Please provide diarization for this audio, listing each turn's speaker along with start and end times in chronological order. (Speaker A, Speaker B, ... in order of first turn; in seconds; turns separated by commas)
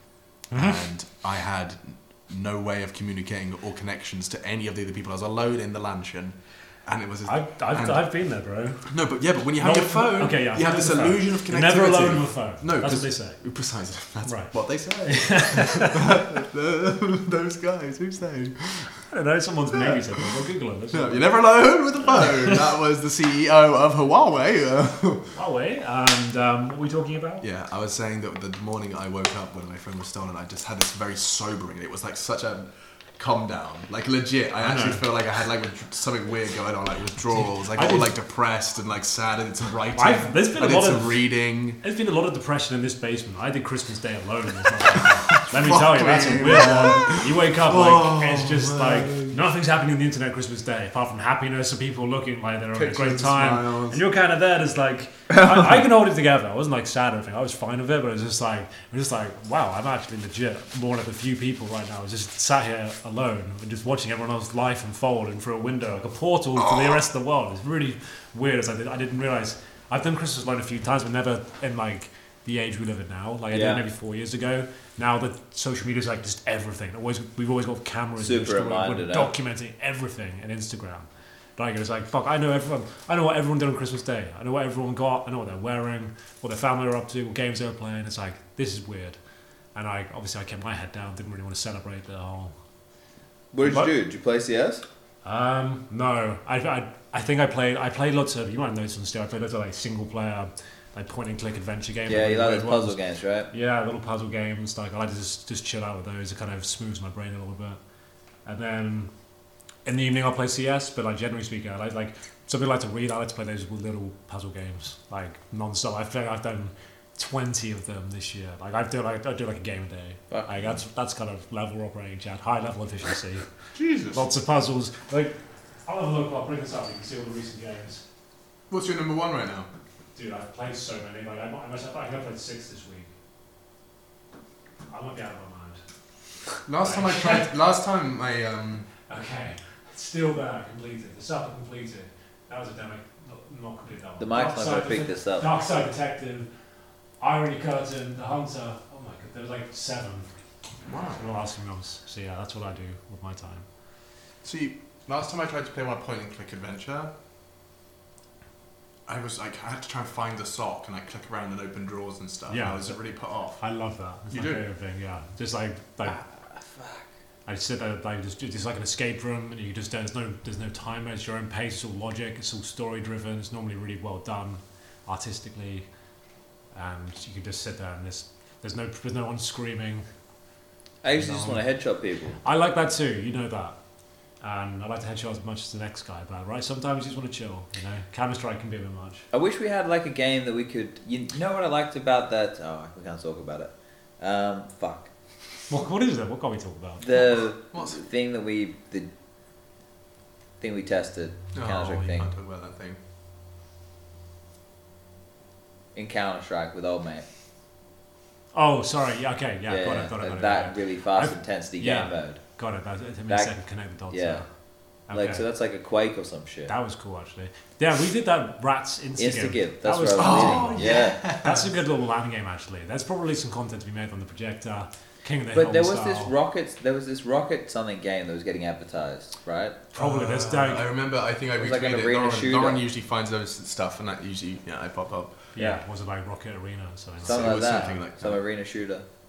Speaker A: 0.5-0.8, Speaker B: 0.5-8.0, Speaker A: 7.2-8.9, Speaker B: 8.9-18.9, Speaker A: 9.6-13.4, Speaker A: 14.2-14.5, Speaker A: 15.0-16.3, Speaker A: 18.9-21.3, Speaker B: 19.8-20.3, Speaker B: 20.9-25.3, Speaker A: 22.1-22.6, Speaker A: 25.3-27.4, Speaker B: 27.4-41.8, Speaker A: 34.6-35.0, Speaker A: 37.3-38.1, Speaker A: 39.9-41.2, Speaker A: 41.8-89.2, Speaker B: 44.9-49.5, Speaker B: 52.7-54.0, Speaker C: 73.5-73.8, Speaker C: 78.2-79.3, Speaker A: 89.7-92.5, Speaker C: 93.5-94.8, Speaker A: 93.6-93.9, Speaker A: 95.2-103.0, Speaker C: 102.0-103.5, Speaker A: 103.5-107.8, Speaker A: 108.5-109.1, Speaker A: 109.8-123.5, Speaker B: 123.7-124.2, Speaker A: 124.1-128.0, Speaker B: 128.7-129.7, Speaker A: 130.1-133.1, Speaker A: 134.9-135.8, Speaker B: 136.7-138.9, Speaker A: 136.8-137.5, Speaker A: 139.1-146.5, Speaker C: 144.2-145.5, Speaker A: 147.2-150.3, Speaker B: 150.9-151.2, Speaker A: 151.1-153.6, Speaker B: 154.4-157.1, Speaker B: 159.1-163.6, Speaker A: 162.5-163.0, Speaker A: 163.6-166.2, Speaker B: 164.3-164.6, Speaker C: 166.7-167.0, Speaker A: 167.4-175.9, Speaker A: 176.7-180.0, Speaker C: 181.0-182.4, Speaker A: 181.2-181.6, Speaker A: 182.4-183.8, Speaker A: 184.4-189.2, Speaker C: 189.3-195.1, Speaker A: 195.7-197.1, Speaker C: 197.0-199.1, Speaker B: 197.7-198.0, Speaker C: 200.6-202.3, Speaker B: 201.5-203.0, Speaker C: 205.9-207.2, Speaker A: 208.5-214.4, Speaker C: 209.7-212.4, Speaker C: 213.3-213.5, Speaker C: 214.1-214.4, Speaker A: 215.1-215.4, Speaker C: 215.1-216.7, Speaker A: 216.7-226.3, Speaker C: 219.2-221.2, Speaker B: 220.2-221.7, Speaker C: 225.5-229.8, Speaker A: 229.9-230.9, Speaker B: 229.9-235.4, Speaker C: 231.6-232.8, Speaker A: 235.5-237.6, Speaker C: 235.6-235.8, Speaker B: 237.2-238.4, Speaker C: 237.2-239.1